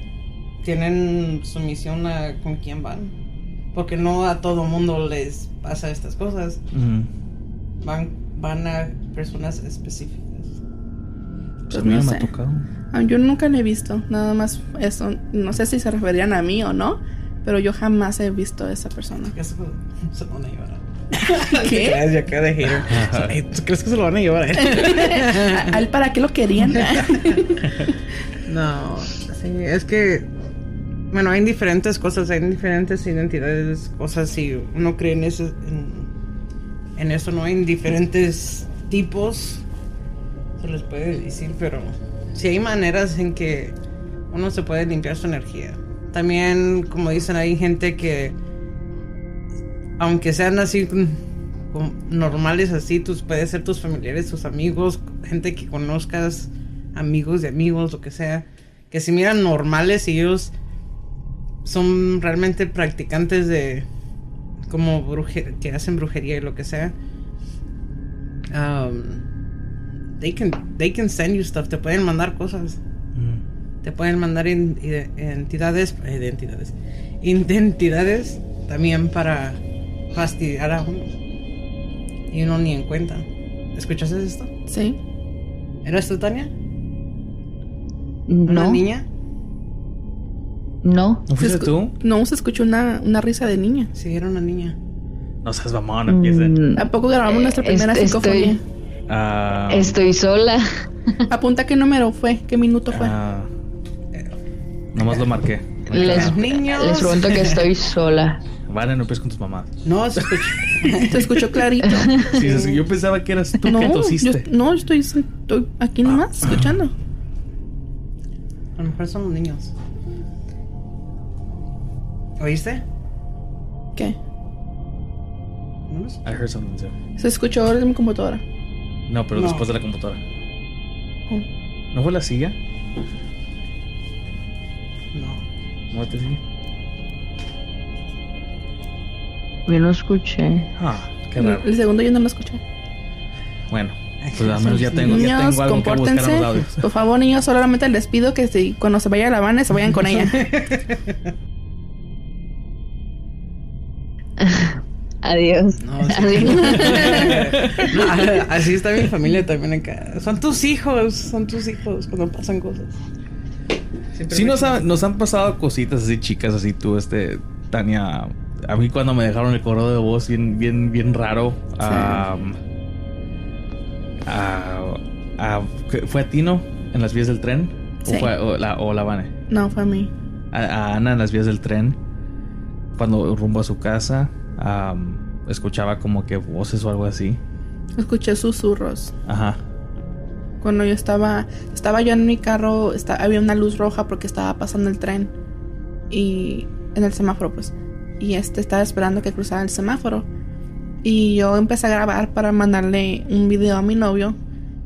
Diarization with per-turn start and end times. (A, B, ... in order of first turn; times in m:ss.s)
0:00.6-0:03.1 A
0:03.7-0:06.6 A
0:06.7-0:07.1 B
0:07.8-0:10.6 A
0:11.7-0:12.7 B
0:11.7-0:12.3 C
0:12.9-0:19.4 C
0:19.2-0:25.8 A
0:21.2-0:22.0 C
0:22.6-0:23.4 B
0:24.6-0:27.9 C
0:26.7-0:27.3 A
0:28.5-0:30.3 A
0:31.1-0:36.1 A
0:37.0-0:39.6 A
0:40.6-0:43.8 A
0:44.3-0:48.4 A
0:50.0-0:51.2 A
0:51.7-1:00.5 A
1:01.6-1:03.9 A
1:04.7-1:07.0 A
1:08.5-1:09.2 A
1:10.2-1:12.8 A
1:13.2-1:13.4 B
1:13.8-1:19.6 A
1:20.1-1:21.1 A
1:22.3-1:24.5 A
1:24.7-1:25.0 C
1:25.8-1:26.5 A
1:28.3-1:28.8 D
1:28.5-1:29.0 A
1:30.8-1:31.3 D
1:31.3-1:31.9 B
1:31.4-1:33.9 C
1:33.9-1:34.8 A
1:35.4-1:36.6 B
1:36.1-1:38.6 D
1:36.8-1:38.6 C
1:39.1-1:40.0 B
1:39.7-1:41.3 D
1:41.3-1:43.1 C
1:42.9-1:43.5 B
1:44.9-1:46.4 B
1:45.9-1:48.4 D
1:45.9-1:47.7 A
1:48.7-1:51.1 B
1:49.8-1:51.3 A
1:51.0-1:52.8 C
1:51.8-1:52.3 D
1:52.3-1:54.5 B
1:53.6-1:56.9 C
1:56.1-1:56.8 B
1:58.8-1:59.7 A
2:02.4-2:02.8 A
2:05.9-2:06.2 A
2:06.2-2:06.9 B
2:07.2-2:08.4 C
2:09.1-2:10.2 B
2:09.3-2:09.7 A
2:11.9-2:12.6 B
2:15.1-2:15.4 A
2:15.9-2:16.4 B
2:19.7-2:20.7 D
2:20.8-2:21.7 B
2:21.4-2:22.6 C
2:23.7-2:26.8 B
2:24.2-2:25.3 A
2:25.0-2:30.5 C
2:29.8-2:31.1 A
2:34.4-2:37.9 D
2:35.8-2:43.0 A
2:36.6-2:37.5 C
2:37.5-2:37.8 B
2:44.1-2:44.9 A
2:44.3-2:52.6 B
2:51.8-2:52.2 C
2:54.2-2:59.3 B
2:59.5-3:00.1 C
3:00.5-3:02.0 B
3:03.0-3:07.4 B
3:08.0-3:09.1 C
3:09.3-3:09.6 B
3:10.6-3:15.3 C
3:16.1-3:20.3 C
3:21.0-3:24.4 C